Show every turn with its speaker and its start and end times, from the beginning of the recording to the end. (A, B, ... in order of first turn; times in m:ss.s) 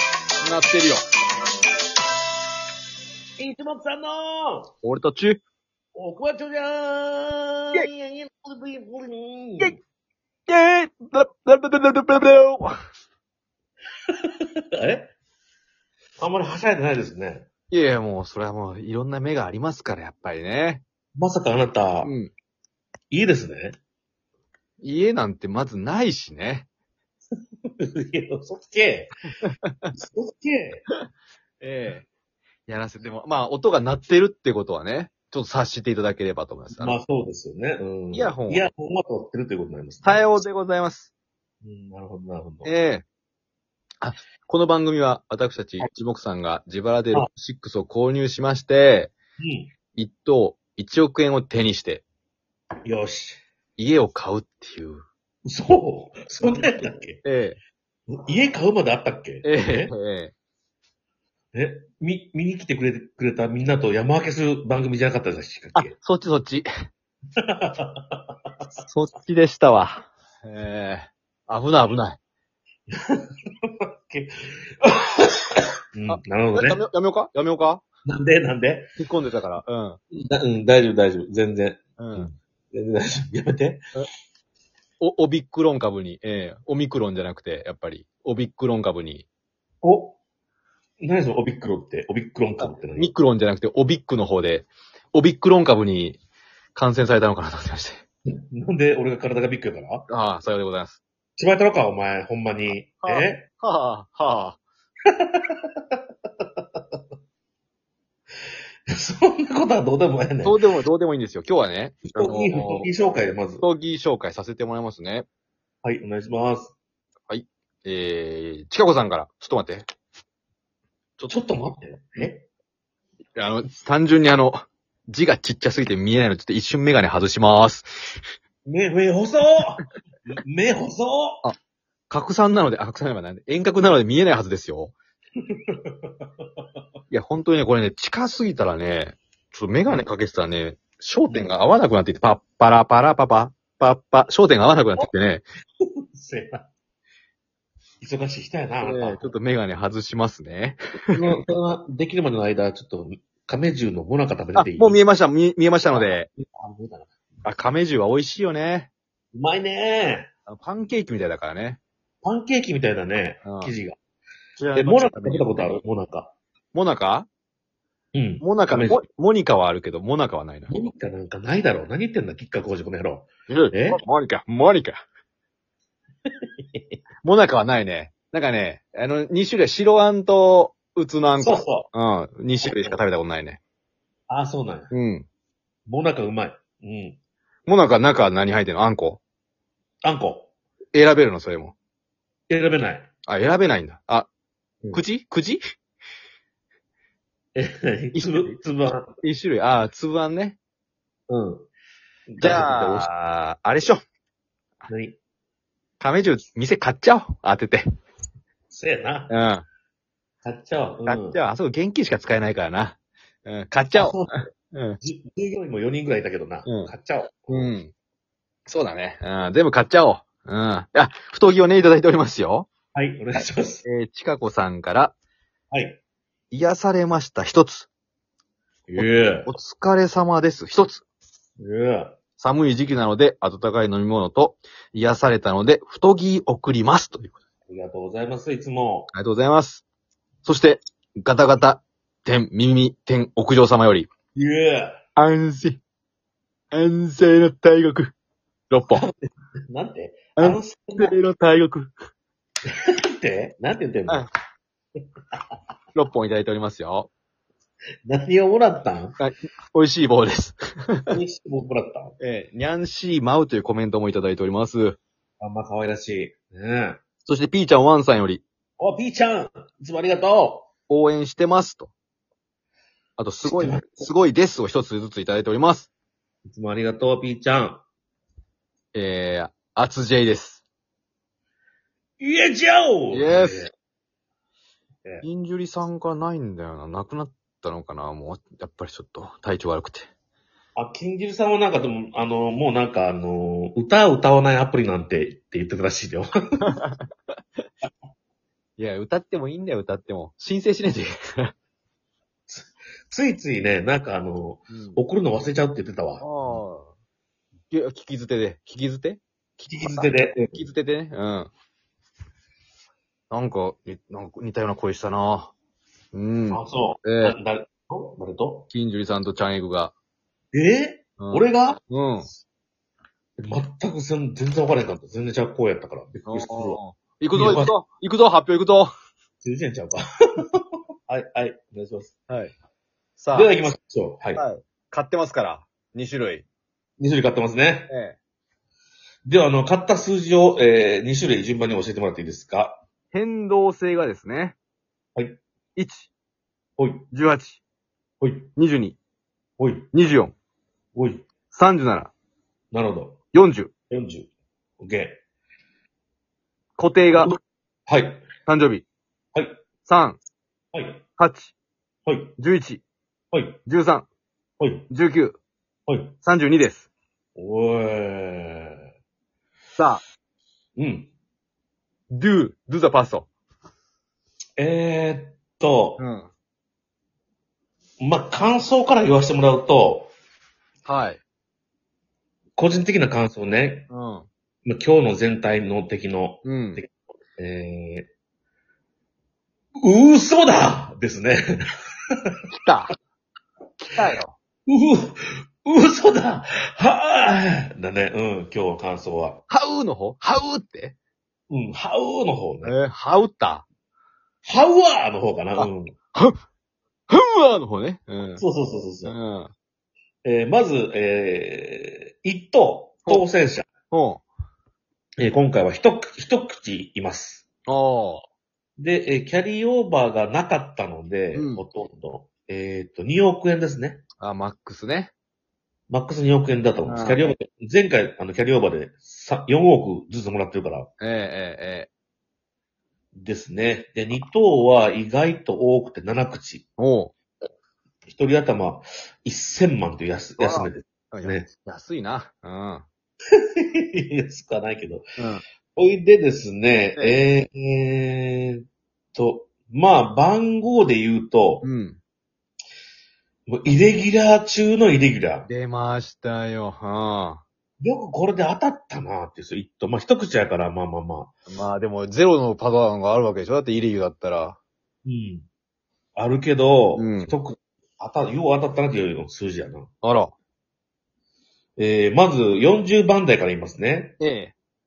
0:00.4-0:01.0 A
0:03.4-0:04.7 B
0:04.8-0:05.4 A
0:06.0-0:09.8 B
0:10.5-0:12.7 A
0:14.8-0:15.1 B
0:16.2-0:17.5 B
0:17.7-0:20.8 A
0:21.2-0:22.1 B
0:22.0-0:22.3 A
0:23.1-0:23.8 B
0:24.8-0:26.7 A
0:27.8-0:29.1 B
0:29.4-0:29.9 A
0:30.0-0:30.8 B
0:31.6-0:32.1 A
0:32.7-0:37.0 A
0:36.7-0:40.2 B
0:38.1-0:38.7 A
0:40.0-0:41.1 A
0:41.6-0:42.7 B
0:42.6-0:43.0 A
0:44.0-0:49.1 A
0:49.4-0:49.7 B
0:49.9-0:52.0 A
0:52.8-0:53.4 B
0:53.8-0:55.0 A
0:55.4-0:57.2 B
0:56.4-0:57.6 A
0:58.1-0:59.9 B
0:59.4-1:00.3 A
1:01.5-1:05.9 B
1:05.8-1:06.7 A
1:07.5-1:08.2 B
1:08.8-1:12.2 A
1:12.9-1:15.4 B
1:16.0-1:16.8 B
1:16.1-1:17.8 A
1:18.1-1:18.9 B
1:19.0-1:20.0 A
1:20.1-1:23.8 B
1:22.0-1:22.3 A
1:25.0-1:29.2 A
1:29.8-1:30.2 B
1:31.0-1:33.1 B
1:32.6-1:36.2 A
1:36.8-1:38.0 A
1:38.5-1:40.1 B
1:40.1-1:41.0 A
1:41.4-1:43.4 B
1:43.0-1:44.6 A
1:45.1-1:46.0 B
1:48.9-1:50.6 B
1:50.4-1:52.9 A
1:52.1-1:53.6 B
1:53.6-1:55.3 A
1:55.8-1:56.7 B
1:57.3-1:59.8 A
2:01.2-2:01.5 A
2:01.3-2:02.5 B
2:03.4-2:07.9 A
2:08.7-2:09.8 B
2:10.4-2:11.4 B
2:12.1-2:15.0 A
2:15.7-2:16.1 B
2:17.1-2:25.4 A
2:21.3-2:21.5 B
2:26.1-2:26.7 B
2:28.0-2:29.4 B
2:28.8-2:31.4 A
2:31.1-2:35.0 B
2:34.6-2:36.3 A
2:35.9-2:37.1 B
2:37.4-2:38.9 A
2:39.3-2:40.3 B
2:40.5-2:41.8 A
2:42.2-2:44.0 B
2:43.4-2:43.7 A
2:44.6-2:45.8 A
2:44.8-2:46.3 B
2:46.7-2:47.3 A
2:48.2-2:49.0 B
2:48.4-2:50.7 A
2:50.7-2:54.0 B
2:53.5-2:55.0 A
2:56.6-2:56.8 B
2:57.2-3:03.6 A
3:01.4-3:01.9 B
3:02.6-3:03.0 B
3:04.3-3:04.9 B
3:04.9-3:05.3 A
3:05.9-3:07.2 B
3:07.7-3:09.2 A
3:10.0-3:10.5 B
3:10.9-3:11.7 A
3:12.5-3:13.1 B
3:13.3-3:14.3 A
3:14.9-3:15.6 A
3:17.6-3:19.2 B
3:18.1-3:18.6 A
3:19.2-3:20.6 A
3:21.3-3:21.7 B
3:22.3-3:23.1 B
3:22.4-3:24.0 A
3:24.9-3:25.2 B
3:26.0-3:27.8 A
3:28.7-3:29.3 B
3:29.3-3:29.6 A
3:30.4-3:31.4 B
3:31.0-3:35.0 A
3:33.9-3:34.4 B
3:35.0-3:37.8 B
3:36.6-3:36.9 A
3:37.5-3:37.9 A
3:38.7-3:42.7 A
3:43.0-3:43.8 B
3:43.8-3:45.2 A
3:45.7-3:46.0 B
3:46.5-3:47.9 A
3:48.9-3:49.5 B
3:49.0-3:51.0 A
3:51.6-3:52.2 B
3:52.4-3:57.4 A
3:57.7-3:59.1 B
3:59.1-3:59.8 A
4:00.4-4:04.1 A
4:04.4-4:05.0 B
4:05.2-4:05.8 A
4:06.7-4:08.1 A
4:08.7-4:09.0 A
4:08.9-4:11.2 B
4:10.4-4:11.9 A
4:13.2-4:14.2 B
4:16.0-4:17.1 A
4:18.1-4:19.2 B
4:19.2-4:21.2 A
4:21.1-4:22.2 B
4:22.2-4:25.0 A
4:25.4-4:27.0 B
4:27.2-4:28.4 A
4:28.8-4:30.7 B
4:30.9-4:31.9 A
4:33.2-4:35.9 A
4:33.4-4:34.1 B
4:36.5-4:37.8 B
4:38.9-4:40.6 A
4:42.2-4:43.7 B
4:43.1-4:43.7 A
4:45.2-4:50.1 A
4:50.8-4:56.3 B
4:56.6-4:57.1 A
4:58.8-5:01.5 A
5:02.5-5:06.6 B
5:04.7-5:05.0 A
5:06.2-5:06.9 A
5:07.7-5:11.5 A
5:09.7-5:10.6 B
5:13.3-5:15.5 A
5:16.1-5:17.4 A
5:16.5-5:18.7 B
5:18.7-5:19.9 A
5:20.5-5:21.8 B
5:21.2-5:22.3 A
5:23.4-5:26.8 B
5:26.3-5:28.9 A
5:27.3-5:27.7 B
5:29.4-5:30.0 B
5:31.1-5:32.1 B
5:33.2-5:33.5 A
5:33.3-5:34.4 B
5:34.3-5:36.4 A
5:37.0-5:37.9 B
5:37.9-5:38.2 A
5:39.2-5:42.8 B
5:43.1-5:44.6 A
5:45.8-5:46.1 A
5:46.8-5:47.0 B
5:47.1-5:47.6 A
5:48.2-5:48.5 B
5:48.6-5:49.0 A
5:49.6-5:49.9 B
5:49.9-5:50.3 A
5:51.0-5:51.2 B
5:51.5-5:52.1 A
5:52.7-5:53.2 B
5:53.3-5:53.7 A
5:53.9-5:55.2 B
5:56.8-5:57.4 A
5:57.2-5:58.3 B
5:58.5-5:58.8 A
5:59.8-6:00.2 A
6:00.7-6:01.0 B
6:01.2-6:01.5 A
6:02.1-6:02.3 B
6:02.4-6:02.8 A
6:03.3-6:03.6 B
6:03.7-6:04.1 A
6:04.6-6:04.9 B
6:04.9-6:05.4 A
6:05.9-6:06.1 B
6:06.2-6:06.9 A
6:07.4-6:08.8 B
6:09.8-6:10.0 A
6:10.8-6:11.1 B
6:12.1-6:13.3 A
6:14.6-6:16.0 B
6:16.0-6:16.3 A
6:18.0-6:20.1 B
6:20.8-6:21.2 A
6:22.6-6:23.9 B
6:23.9-6:24.3 A
6:24.6-6:28.1 B
6:26.4-6:26.8 A
6:29.8-6:31.4 B
6:32.5-6:32.9 A
6:33.8-6:34.4 A
6:34.7-6:39.4 B
6:39.5-6:41.0 A
6:41.5-6:42.8 B
6:42.6-6:43.6 A
6:44.4-6:46.0 B
6:45.6-6:46.4 A
6:47.1-6:48.4 A
6:48.4-6:49.1 B
6:49.0-6:49.5 A
6:50.2-6:53.7 B
6:53.9-6:54.2 A
6:55.2-6:57.5 B
6:57.7-6:58.2 A
6:58.8-7:04.0 B
7:01.3-7:01.6 A
7:04.2-7:05.1 A
7:05.9-7:10.9 B
7:06.8-7:07.3 A
7:11.0-7:11.9 A
7:13.1-7:16.7 B
7:16.8-7:17.1 A
7:18.1-7:21.5 B
7:20.4-7:22.8 A
7:23.4-7:25.0 B
7:25.2-7:25.4 A
7:25.8-7:28.6 B
7:27.0-7:27.2 A
7:29.2-7:31.6 B
7:31.6-7:32.0 A
7:33.5-7:35.5 B
7:35.5-7:37.4 A
7:37.8-7:41.3 B
7:41.5-7:44.6 A
7:45.0-7:45.4 B
7:46.2-7:49.9 B
7:47.0-7:47.3 A
7:50.0-7:50.3 A
7:51.8-7:54.2 B
7:54.2-7:54.5 A